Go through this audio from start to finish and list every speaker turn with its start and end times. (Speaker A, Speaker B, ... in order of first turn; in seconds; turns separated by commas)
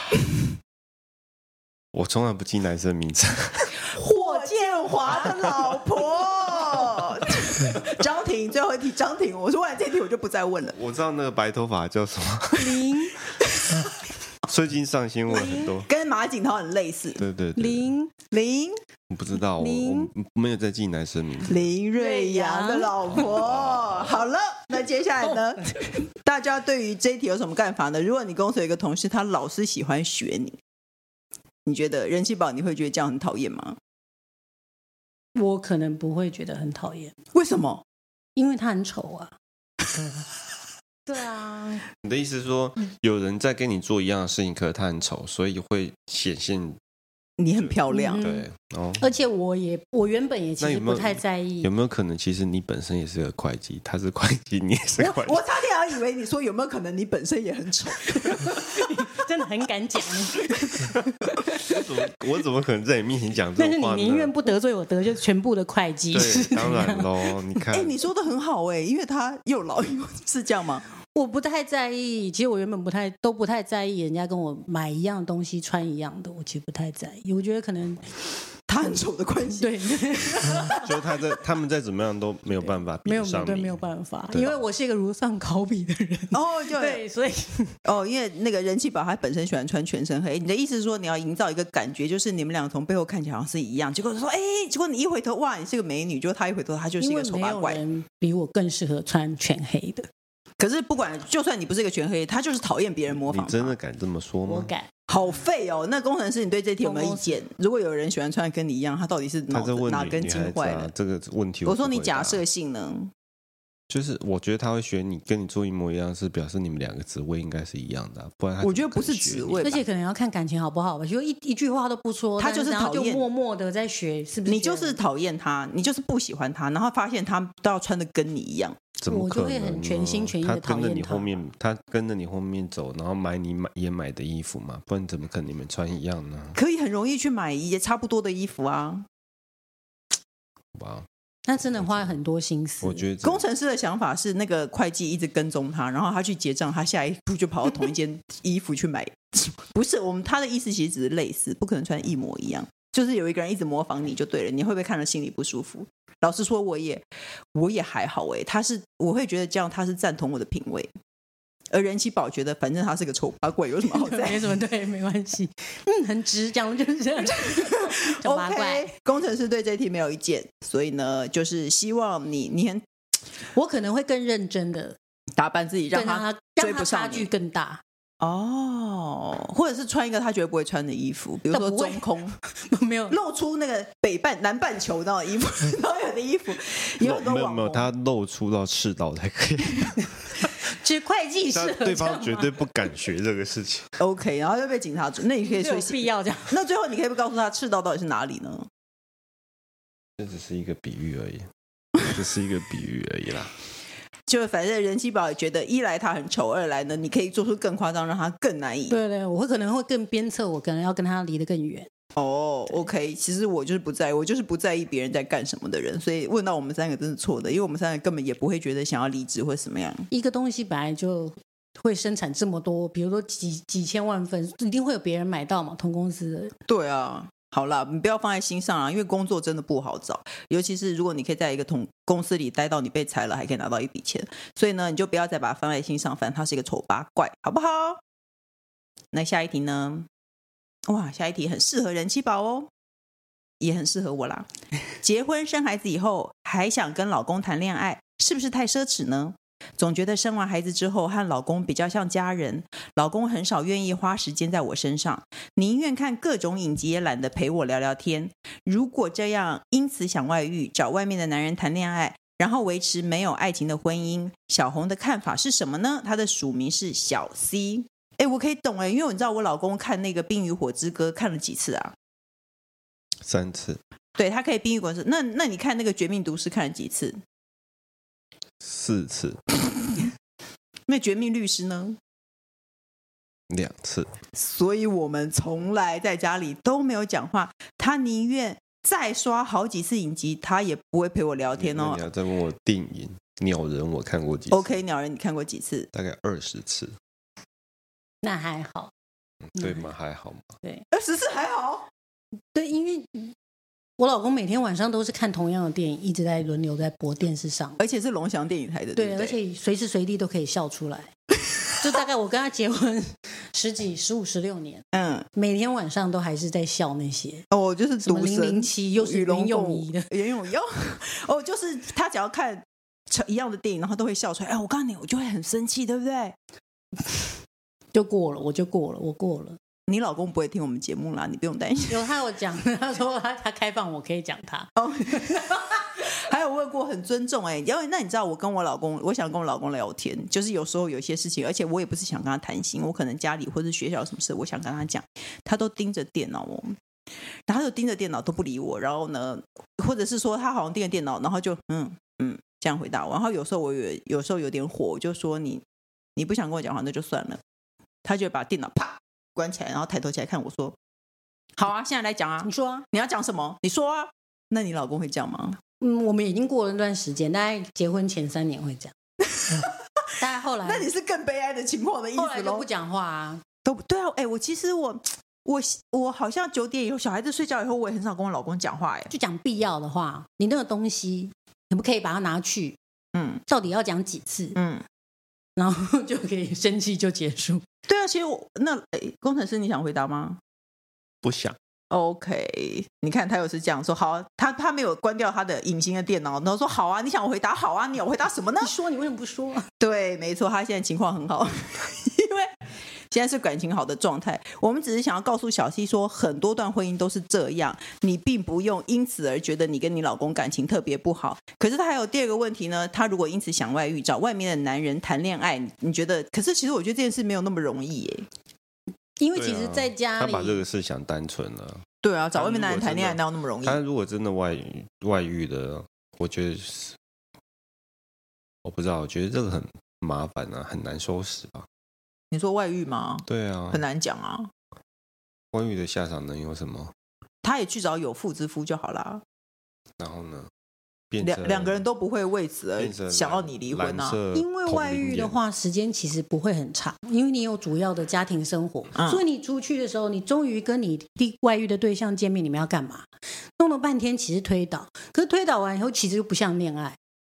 Speaker A: 1.9-3.7, Speaker B: 3.9-10.8, Speaker C: 4.0-5.5, Speaker A: 10.8-13.0, Speaker C: 12.6-13.2, Speaker A: 14.5-15.9, Speaker C: 15.3-15.7, Speaker B: 15.4-17.2, Speaker A: 17.2-17.9, Speaker C: 17.6-18.1, Speaker B: 18.3-18.8, Speaker A: 19.1-21.7, Speaker C: 19.6-20.1, Speaker B: 21.5-30.6, Speaker C: 21.9-23.1, Speaker A: 23.1-24.2, Speaker B: 31.6-33.8, Speaker C: 35.4-37.1, Speaker B: 37.3-37.8, Speaker C: 38.4-39.3, Speaker C: 41.1-41.9, Speaker A: 42.0-46.8, Speaker B: 47.4-48.3, Speaker A: 47.6-49.1, Speaker C: 47.9-48.5, Speaker C: 49.0-51.7, Speaker A: 50.6-55.4, Speaker B: 55.0-58.5, Speaker C: 58.2-61.0, Speaker A: 61.5-64.3, Speaker C: 63.6-67.6, Speaker A: 66.1-68.0, Speaker B: 67.7-70.8, Speaker C: 71.1-78.0, Speaker B: 78.7-81.2, Speaker C: 79.6-80.8, Speaker A: 80.8-84.5, Speaker C: 82.5-87.8, Speaker B: 86.3-87.0, Speaker B: 87.8-97.8, Speaker C: 97.0-100.1, Speaker B: 100.6-103.8, Speaker A: 103.1-104.7, Speaker C: 104.5-104.9, Speaker B: 105.1-110.9, Speaker C: 106.8-107.4, Speaker A: 109.5-112.4, Speaker B: 111.7-113.1, Speaker A: 113.9-119.7, Speaker B: 118.6-119.8, Speaker C: 119.6-125.0, Speaker B: 122.4-123.2, Speaker B: 124.5-128.8, Speaker A: 129.0-136.6, Speaker C: 129.1-131.4, Speaker B: 136.6-139.1, Speaker A: 140.8-141.1, Speaker C: 141.5-143.0, Speaker A: 141.7-142.2, Speaker A: 142.8-143.4, Speaker B: 143.2-157.0, Speaker B: 157.6-160.9, Speaker B: 161.7-164.6, Speaker C: 163.9-168.9, Speaker B: 168.2-172.8, Speaker C: 173.5-175.0, Speaker B: 175.4-177.3, Speaker C: 175.9-177.8, Speaker B: 178.2-182.3, Speaker C: 181.5-182.1, Speaker C: 182.7-183.2, Speaker B: 183.1-187.9, Speaker A: 187.0-190.5, Speaker C: 190.6-192.6, Speaker A: 191.5-193.9, Speaker B: 194.0-198.7, Speaker C: 195.5-196.5, Speaker A: 200.2-201.5, Speaker A: 202.0-203.5, Speaker B: 204.3-209.0, Speaker C: 208.9-211.9, Speaker B: 212.2-220.1, Speaker C: 220.1-226.5, Speaker B: 226.7-238.0, Speaker B: 239.1-240.1, Speaker B: 240.9-242.7, Speaker B: 243.6-244.5, Speaker B: 245.0-271.9, Speaker A: 273.2-273.8, Speaker B: 274.2-277.2, Speaker A: 278.6-279.4, Speaker B: 280.9-282.0, Speaker A: 283.5-284.1, Speaker B: 284.3-292.0, Speaker A: 291.6-294.8, Speaker B: 294.5-295.9, Speaker A: 295.9-297.0, Speaker C: 298.2-298.9, Speaker A: 299.5-300.6, Speaker C: 299.6-299.9, Speaker B: 300.9-301.9, Speaker C: 302.5-303.3, Speaker C: 304.0-307.8, Speaker B: 307.8-309.4, Speaker C: 308.9-311.1, Speaker C: 311.6-317.5, Speaker B: 314.9-315.3, Speaker B: 317.5-326.4, Speaker C: 318.1-320.1, Speaker C: 327.9-329.6, Speaker B: 329.9-332.1, Speaker C: 331.9-335.7, Speaker B: 334.8-346.8, Speaker B: 347.5-355.6, Speaker B: 356.2-357.4, Speaker B: 358.0-360.8, Speaker B: 361.6-365.6, Speaker C: 362.4-362.9, Speaker C: 365.8-368.9, Speaker B: 369.4-369.6, Speaker C: 370.2-370.9, Speaker B: 370.6-372.7, Speaker C: 372.1-373.4, Speaker B: 373.6-379.1, Speaker C: 379.1-382.8, Speaker B: 383.1-383.4, Speaker C: 383.5-384.6, Speaker B: 384.6-384.8, Speaker C: 385.6-387.6, Speaker B: 387.9-390.4, Speaker A: 391.2-391.6, Speaker B: 391.9-398.7, Speaker C: 398.6-399.7, Speaker B: 399.8-402.5, Speaker B: 403.1-418.3, Speaker C: 419.2-420.6, Speaker A: 419.3-421.8, Speaker B: 422.0-423.8, Speaker A: 422.4-427.0, Speaker A: 428.6-431.7, Speaker B: 432.3-434.5, Speaker A: 433.3-433.8, Speaker A: 435.5-436.9, Speaker B: 437.4-439.2, Speaker A: 440.0-440.5, Speaker A: 441.1-441.8, Speaker B: 441.2-444.2, Speaker A: 442.8-445.4, Speaker C: 444.3-457.0, Speaker B: 449.0-449.2